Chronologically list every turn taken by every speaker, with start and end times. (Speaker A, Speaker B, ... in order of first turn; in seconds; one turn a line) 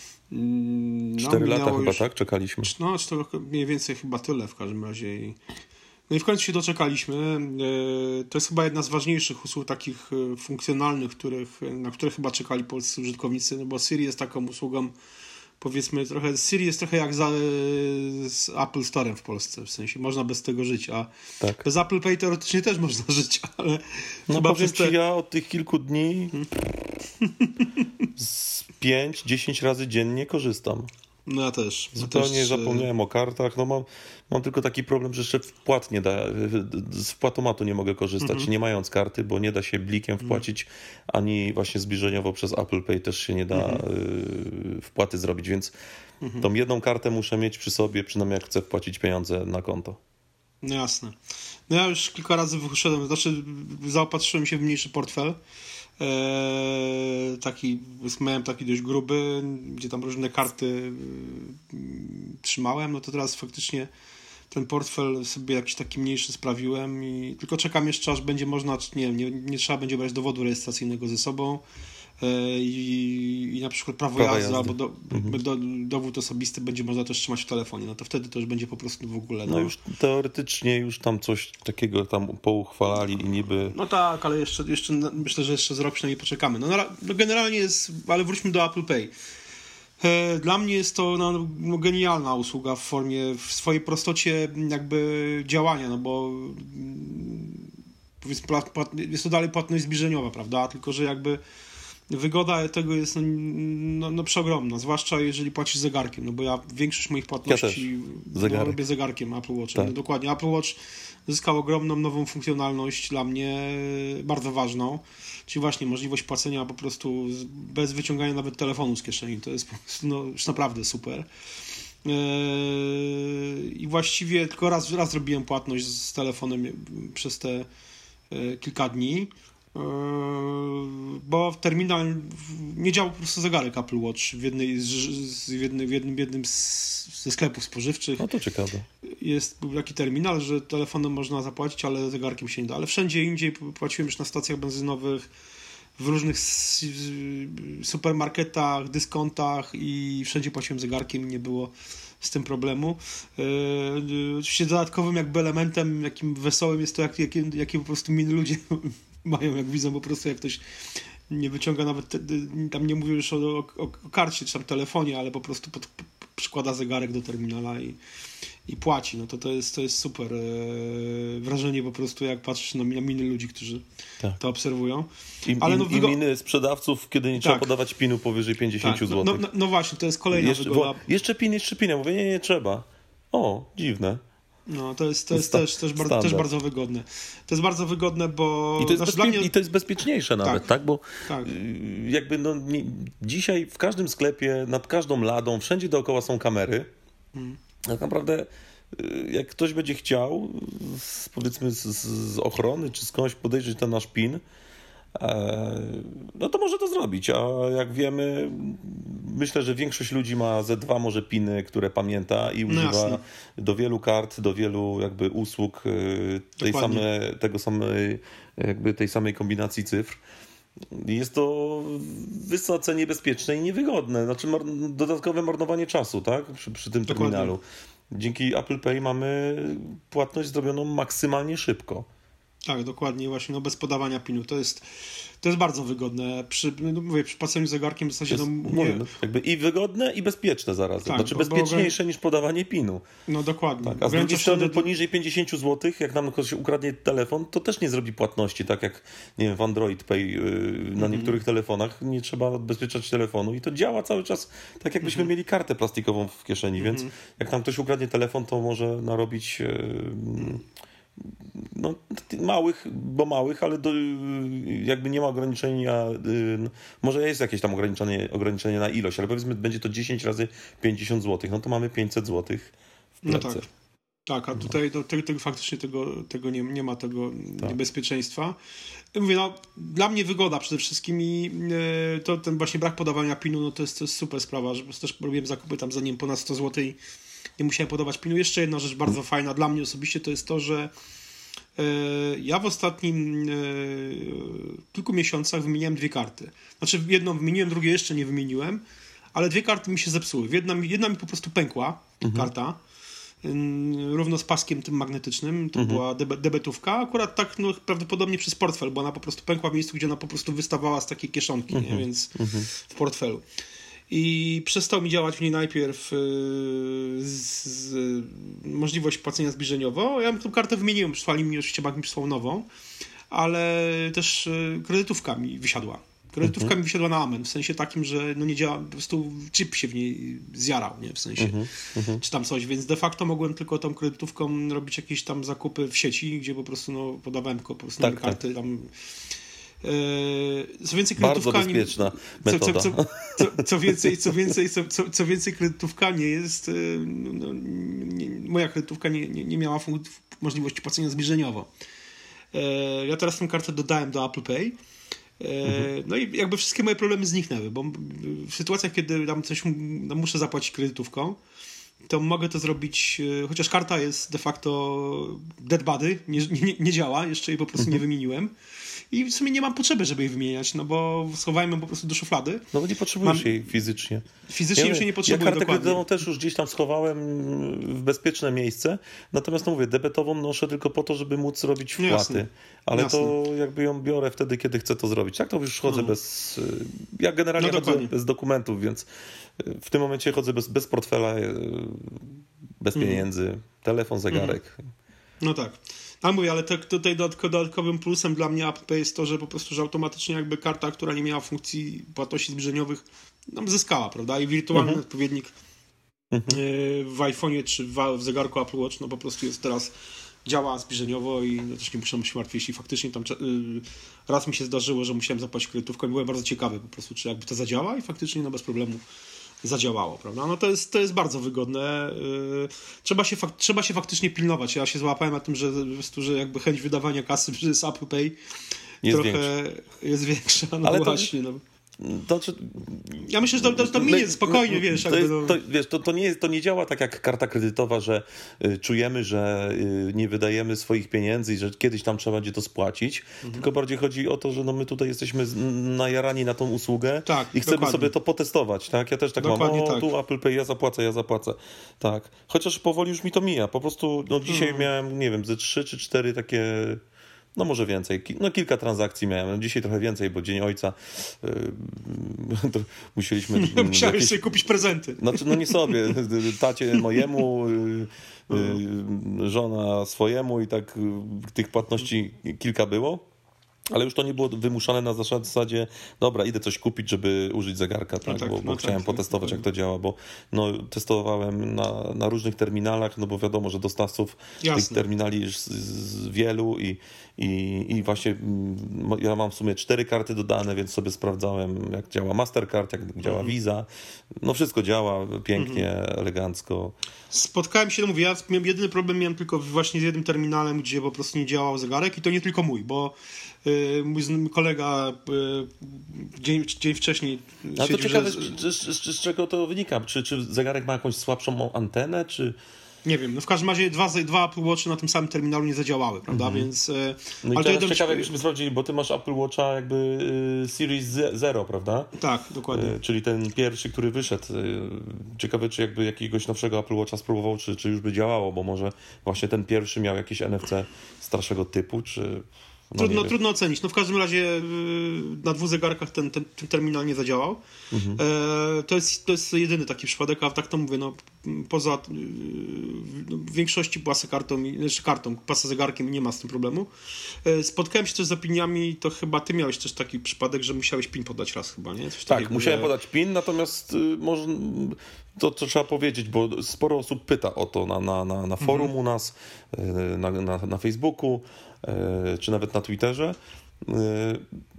Speaker A: 0.3-2.0
Speaker B: 1.2-2.7
Speaker A: 2.6-5.4
Speaker A: 6.1-14.9
Speaker A: 15.6-21.1
Speaker A: 21.6-24.9
Speaker B: 24.3-26.4
Speaker A: 27.2-27.9
Speaker B: 28.2-30.9
Speaker A: 31.3-32.9
Speaker B: 31.9-45.7
Speaker A: 38.2-38.5
Speaker A: 43.5-43.9
Speaker A: 46.2-46.5
Speaker B: 46.4-50.0
Speaker A: 50.6-51.2
Speaker A: 51.7-55.4
Speaker A: 56.0-63.9
Speaker A: 64.5-71.6
Speaker A: 72.2-79.7
Speaker B: 74.2-75.4
Speaker B: 79.5-83.8
Speaker A: 83.7-89.1
Speaker A: 90.0-97.7
Speaker A: 98.2-101.4
Speaker A: 102.1-121.3
Speaker B: 107.5-108.8
Speaker A: 122.0-127.7
Speaker A: 128.3-138.3
Speaker B: 138.2-138.9
Speaker A: 139.1-145.3
Speaker A: 146.0-160.6
Speaker A: 161.3-168.0
Speaker A: 168.7-173.8
Speaker A: 174.4-176.2
Speaker B: 175.5-179.5
Speaker A: 177.4-177.7
Speaker A: 178.8-181.1
Speaker B: 180.3-184.2
Speaker A: 184.7-189.5
Speaker B: 185.3-186.5
Speaker B: 188.8-196.9
Speaker A: 190.4-190.7
Speaker A: 191.2-191.5
Speaker B: 197.9-204.4
Speaker B: 205.2-220.2
Speaker A: 212.7-213.2
Speaker A: 216.6-217.1
Speaker B: 220.9-232.1
Speaker A: 227.1-227.6
Speaker A: 232.7-234.9
Speaker A: 235.4-239.1
Speaker B: 238.3-243.0
Speaker A: 241.1-241.9
Speaker A: 243.3-244.9
Speaker B: 243.8-260.6
Speaker A: 251.0-251.4
Speaker A: 255.0-255.3
Speaker A: 256.8-257.1
Speaker B: 261.2-273.6
Speaker A: 273.2-273.6
Speaker A: 274.3-278.6
Speaker A: 279.1-287.0
Speaker A: 287.6-290.9
Speaker A: 291.8-298.8
Speaker A: 299.3-302.8
Speaker B: 302.2-302.5
Speaker A: 303.4-313.4
Speaker B: 305.8-306.0
Speaker B: 311.7-312.7
Speaker A: 314.1-322.7
Speaker A: 323.3-331.6
Speaker B: 326.4-326.7
Speaker B: 331.4-332.2
Speaker A: 332.2-338.9
Speaker B: 338.0-338.4
Speaker A: 339.8-351.7
Speaker B: 341.2-344.2
Speaker A: 352.5-354.8
Speaker A: 355.4-361.4
Speaker B: 355.6-355.9
Speaker A: 362.1-368.5
Speaker A: 369.1-372.7
Speaker B: 372.7-389.1
Speaker A: 373.2-373.6
Speaker A: 374.5-376.1
Speaker A: 382.0-383.3
Speaker A: 385.9-386.1
Speaker A: 387.6-388.1
Speaker B: 389.6-394.8
Speaker A: 392.9-393.3
Speaker A: 394.3-394.6
Speaker A: 395.4-405.5
Speaker B: 404.7-405.0
Speaker B: 406.3-406.6
Speaker A: 406.5-419.0
Speaker A: 419.6-428.4
Speaker B: 429.0-429.5
Speaker A: 429.1-431.6
Speaker B: 430.8-431.3
Speaker B: 432.0-457.0
Speaker A: 433.2-435.6
Speaker A: 447.2-448.1
Speaker A: 449.4-450.1
Speaker A: 454.5-454.9
Speaker B: 457.6-464.6
Speaker A: 463.6-466.2
Speaker B: 465.2-473.2
Speaker A: 466.9-467.4
Speaker A: 468.5-468.8
Speaker B: 473.9-493.9
Speaker A: 478.2-479.6
Speaker A: 484.6-485.1
Speaker A: 493.2-493.5
Speaker B: 494.4-497.0
Speaker A: 495.6-495.9
Speaker A: 497.3-508.6
Speaker B: 507.8-512.6
Speaker A: 513.0-518.3
Speaker B: 516.3-516.7
Speaker B: 517.4-522.1
Speaker A: 522.2-523.0
Speaker B: 522.7-533.3
Speaker A: 533.0-537.6
Speaker B: 537.9-538.2
Speaker A: 538.2-546.9
Speaker A: 547.4-552.9
Speaker B: 552.3-564.4
Speaker A: 558.6-558.9